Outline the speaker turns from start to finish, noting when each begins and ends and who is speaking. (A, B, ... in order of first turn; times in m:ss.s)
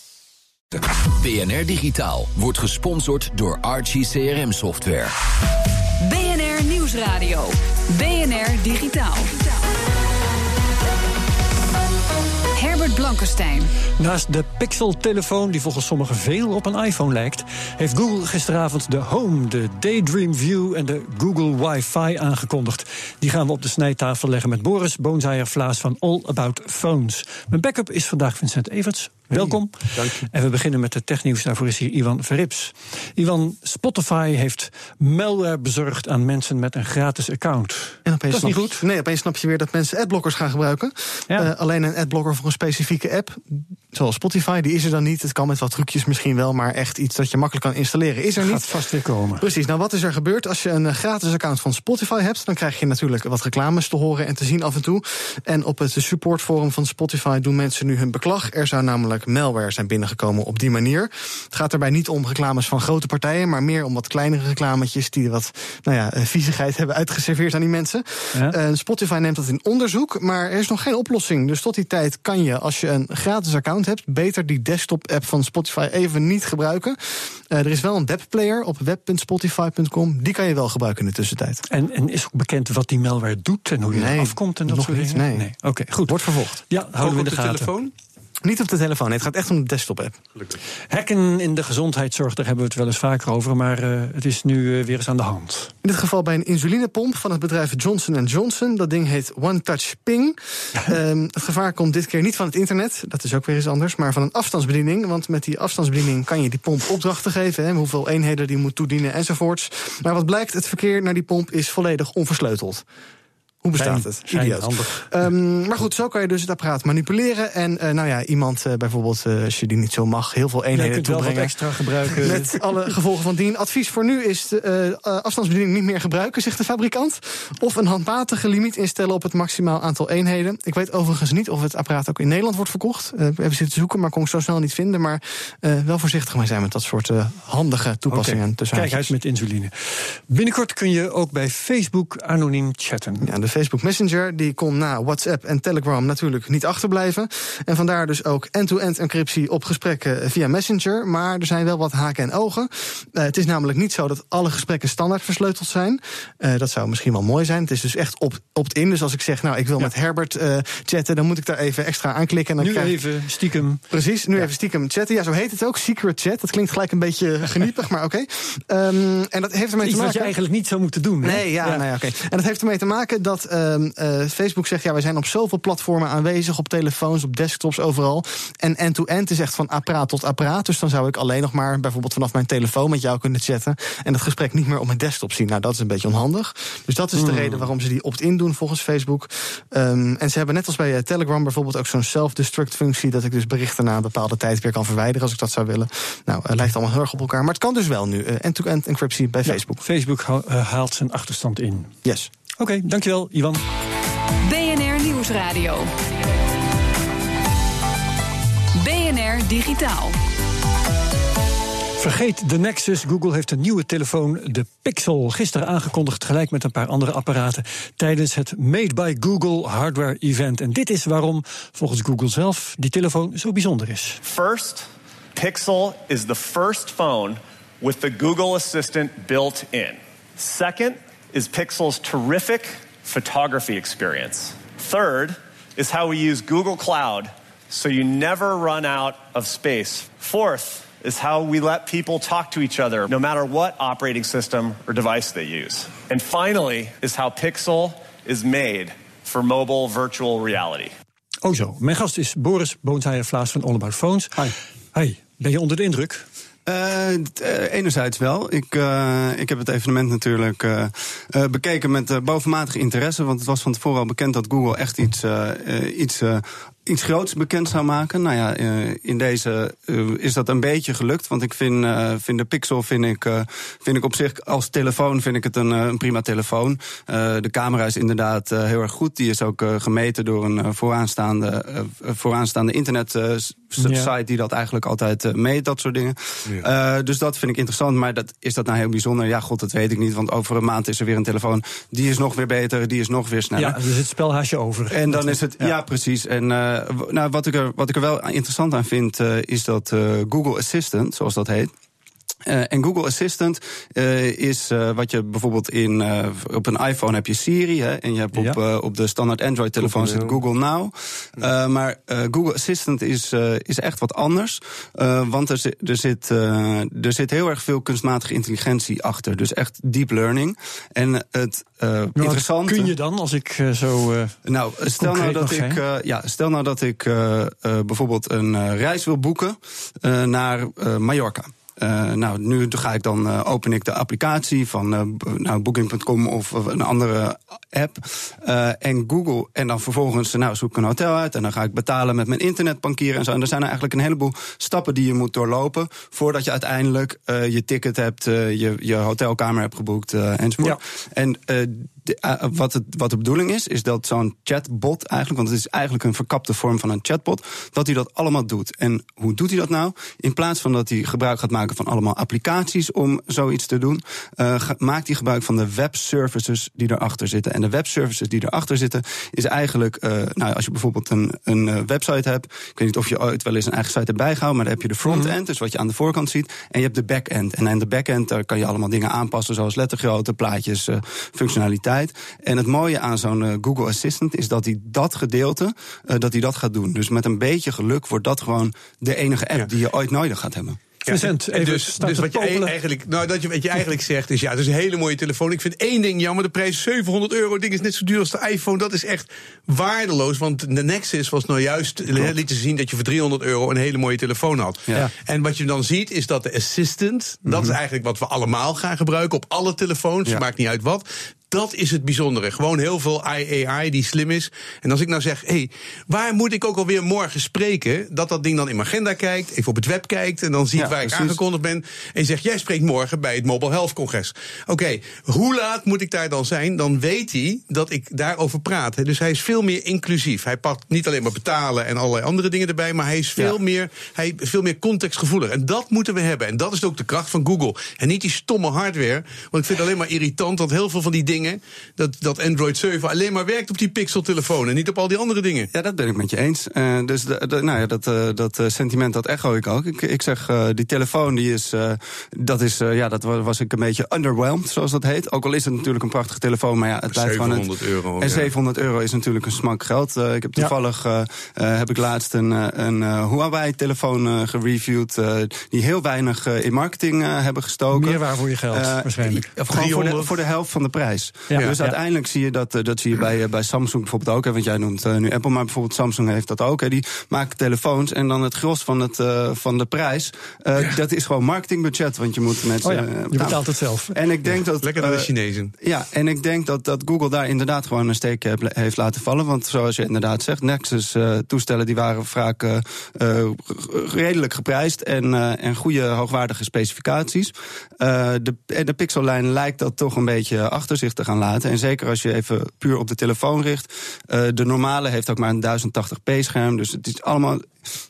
0:00.8-0:05.1 A
0:06.0-0:09.4 B
0:12.5-0:13.7 B
0:14.0-0:38.8 C
0:38.0-0:48.8 D
0:48.4-0:49.5 C
0:49.4-1:21.6 D
1:21.7-1:27.7 C
1:23.9-1:25.5 D
1:26.0-1:26.6 D
1:27.0-1:27.9 E
1:28.4-1:30.2 D
1:30.9-1:35.7 C
1:35.8-1:52.8 D
1:53.6-2:19.1 D
1:53.8-1:55.1 C
2:00.7-2:02.6 C
2:18.1-2:23.3 C
2:23.2-2:43.0 D
2:42.6-2:43.8 C
2:43.9-2:50.3 D
2:49.8-2:51.8 C
2:51.2-3:19.8 D
3:07.1-3:07.7 C
3:19.4-3:21.9 C
3:22.0-3:22.3 D
3:22.6-3:23.6 C
3:24.4-3:25.9 B
3:28.8-3:30.2 B
3:32.0-3:44.2 C
3:44.2-4:10.9 F
4:11.4-4:16.2 C
4:16.6-4:53.8 G
4:43.8-4:44.1 C
4:53.6-4:55.7 C
4:54.9-5:01.7 G
5:02.4-5:22.9 G
5:09.8-5:10.3 E
5:22.2-5:24.4 C
5:24.4-6:30.8 G
5:25.0-5:25.8 C
6:15.0-6:15.3 C
6:31.0-7:25.7 E
6:31.1-6:32.7 C
6:47.4-6:47.8 G
7:00.8-7:01.4 G
7:25.7-8:27.7 G
7:37.1-7:38.5 E
7:47.9-7:49.4 C
7:49.6-7:50.3 E
7:51.5-7:52.0 C
8:02.8-8:04.2 C
8:04.8-8:05.7 E